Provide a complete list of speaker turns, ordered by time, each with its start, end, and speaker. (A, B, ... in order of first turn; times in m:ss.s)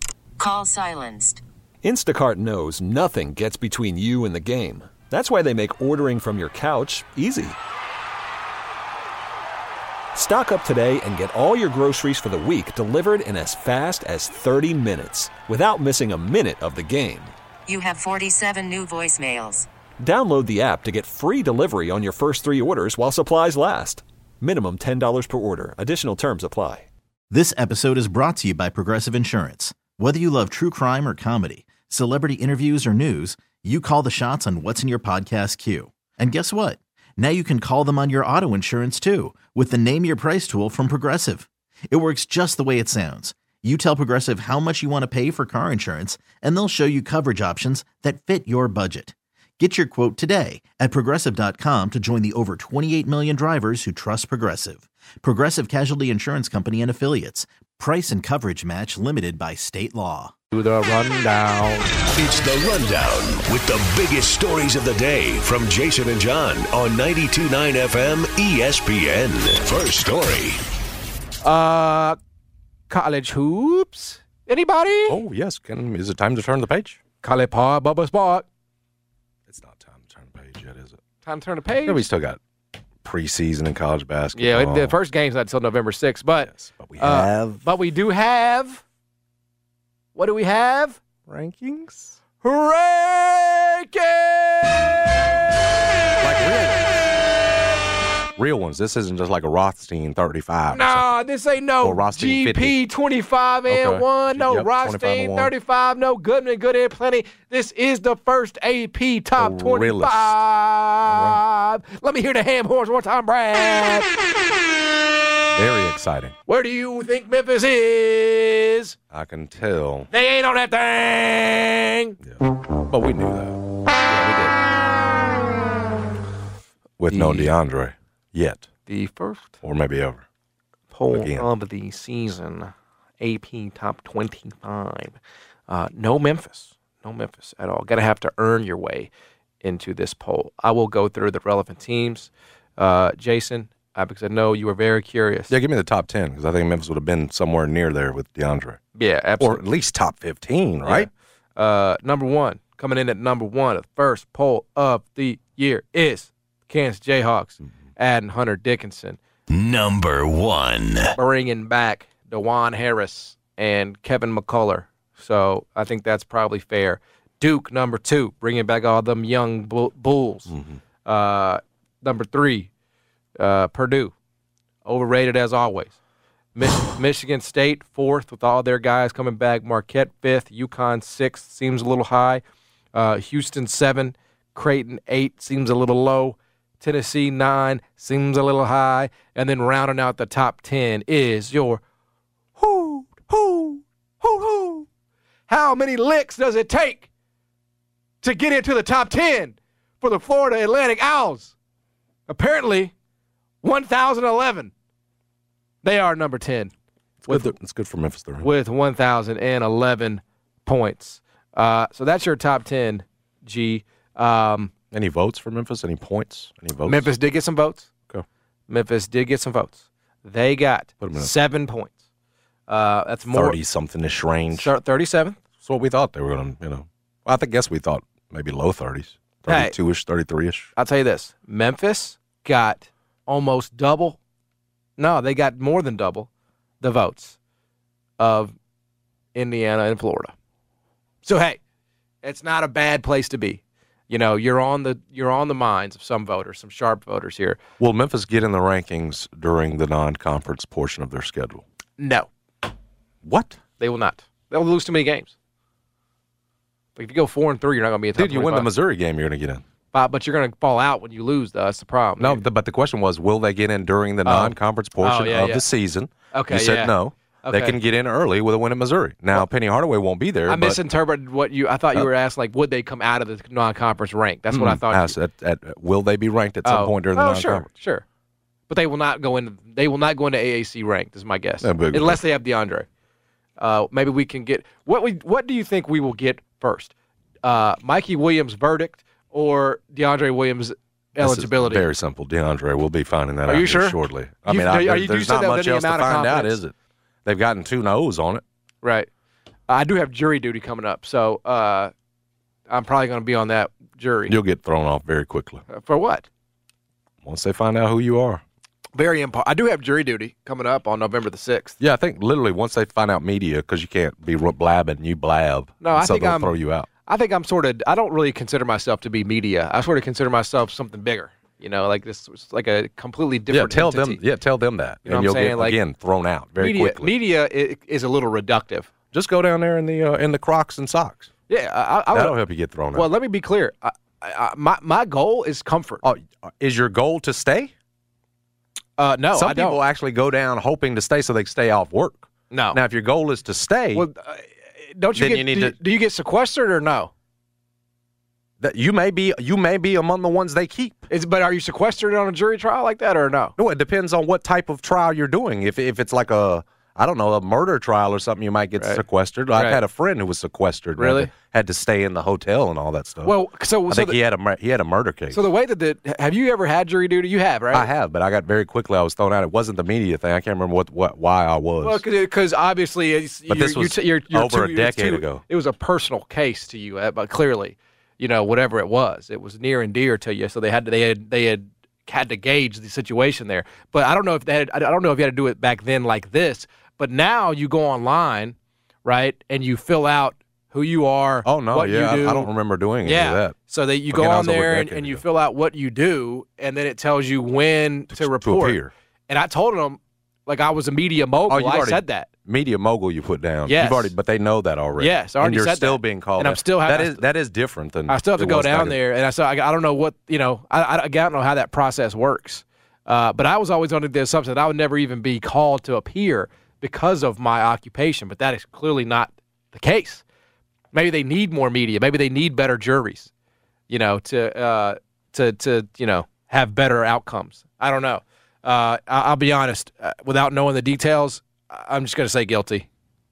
0:00.4-0:01.4 A
0:01.8-0:07.6 B
0:10.1-0:17.3 B
0:17.7-0:19.7 A
0:20.0-0:26.9 B
0:27.3-1:00.3 C
1:00.5-1:01.9 D
1:02.0-1:10.6 E
1:11.4-1:12.2 D
1:12.9-1:15.2 D
1:15.1-1:17.0 F
1:17.2-1:18.4 D
1:19.5-1:21.0 F
1:21.2-1:22.0 D
1:21.8-1:22.4 F
1:23.0-1:24.9 F
1:24.3-1:28.8 D
1:26.5-1:27.6 F
1:30.1-1:31.0 D
1:31.3-1:32.1 F
1:32.4-1:34.9 D
1:36.2-1:37.0 F
1:38.4-1:41.0 F
1:40.7-1:54.1 D
1:41.8-1:42.7 F
1:43.7-1:45.5 F
1:49.4-1:50.4 F
1:51.1-1:51.4 F
1:55.5-1:56.3 F
1:56.5-1:58.9 D
1:59.1-2:00.1 F
2:00.1-2:02.2 D
2:02.2-2:03.6 F
2:04.0-2:04.5 D
2:07.0-2:08.6 F
2:07.1-2:07.5 D
2:08.8-2:09.5 D
2:09.6-2:10.2 F
2:10.9-2:15.2 D
2:11.1-2:11.4 F
2:15.7-2:19.1 D
2:19.6-2:25.5 D
2:25.5-2:28.8 F
2:29.0-2:29.6 D
2:29.4-2:31.1 F
2:30.8-2:39.2 D
2:39.5-2:41.1 E
2:41.2-2:50.5 D
2:50.5-2:50.8 F
2:51.0-2:52.7 D
2:53.4-2:54.1 D
2:54.8-2:55.9 D
2:56.6-3:02.4 D
3:02.9-3:11.8 D
3:12.6-3:14.9 D
3:15.5-3:17.1 D
3:18.2-3:21.5 D
3:22.3-3:22.9 D
3:23.6-3:24.7 D
3:25.8-3:26.7 D
3:27.2-3:28.4 F
3:27.3-3:27.5 D
3:28.4-3:34.7 D
3:34.9-3:37.1 F
3:36.8-3:37.9 D
3:38.7-3:41.9 D
3:41.0-3:41.3 F
3:42.7-3:43.6 D
3:43.3-3:44.7 F
3:44.5-3:45.4 D
3:45.6-3:50.7 F
3:49.5-3:49.7 D
3:50.8-3:54.2 D
3:55.0-3:56.3 D
3:56.8-3:57.4 D
3:58.2-3:58.5 D
3:59.3-4:00.3 D
4:01.2-4:01.6 D
4:02.2-4:07.6 D
4:07.8-4:11.6 F
4:12.0-4:12.3 D
4:13.2-4:13.6 F
4:13.8-4:15.3 D
4:17.0-4:18.7 D
4:18.2-4:19.6 F
4:19.9-4:22.4 D
4:22.2-4:30.8 F
4:24.2-4:25.6 D
4:26.3-4:27.8 D
4:30.5-4:35.1 D
4:34.5-4:37.7 F
4:36.6-4:38.0 D
4:38.7-4:42.9 D
4:41.6-4:42.2 F
4:43.6-4:46.9 D
4:47.4-4:51.8 D
4:51.2-4:56.7 F
4:53.4-4:56.6 D
4:57.2-4:58.4 F
4:58.8-4:59.1 D
4:59.7-5:01.9 D
5:02.7-5:04.4 D
5:04.3-5:05.6 F
5:05.7-5:06.2 D
5:07.2-5:08.4 F
5:09.0-5:11.8 D
5:11.8-5:16.9 F
5:15.8-5:16.5 D
5:17.0-5:24.2 D
5:23.5-5:27.1 F
5:25.0-5:25.8 D
5:26.6-5:28.9 D
5:29.1-5:31.3 F
5:31.5-5:32.4 D
5:32.1-5:33.1 F
5:32.9-5:36.0 D
5:36.0-5:37.7 F
5:39.0-5:39.8 D
5:39.3-5:44.1 F
5:42.5-5:42.8 D
5:43.9-5:47.1 D
5:45.1-5:45.7 F
5:48.6-5:51.0 F
5:51.1-5:53.5 D
5:53.6-6:03.3 F
5:59.5-5:59.8 D
6:01.0-6:01.3 D
6:03.2-6:04.2 D
6:03.9-6:05.4 F
6:05.3-6:07.9 D
6:07.7-6:12.0 F
6:11.8-6:32.5 D
6:13.5-6:15.4 F
6:31.4-6:33.6 F
6:33.0-6:38.8 D
6:34.1-6:35.2 F
6:38.1-6:38.9 F
6:39.3-6:42.3 D
6:41.5-6:49.0 F
6:43.6-6:44.1 D
6:45.0-6:47.2 D
6:48.1-7:00.2 D
7:00.9-7:03.3 D
7:03.9-7:12.9 D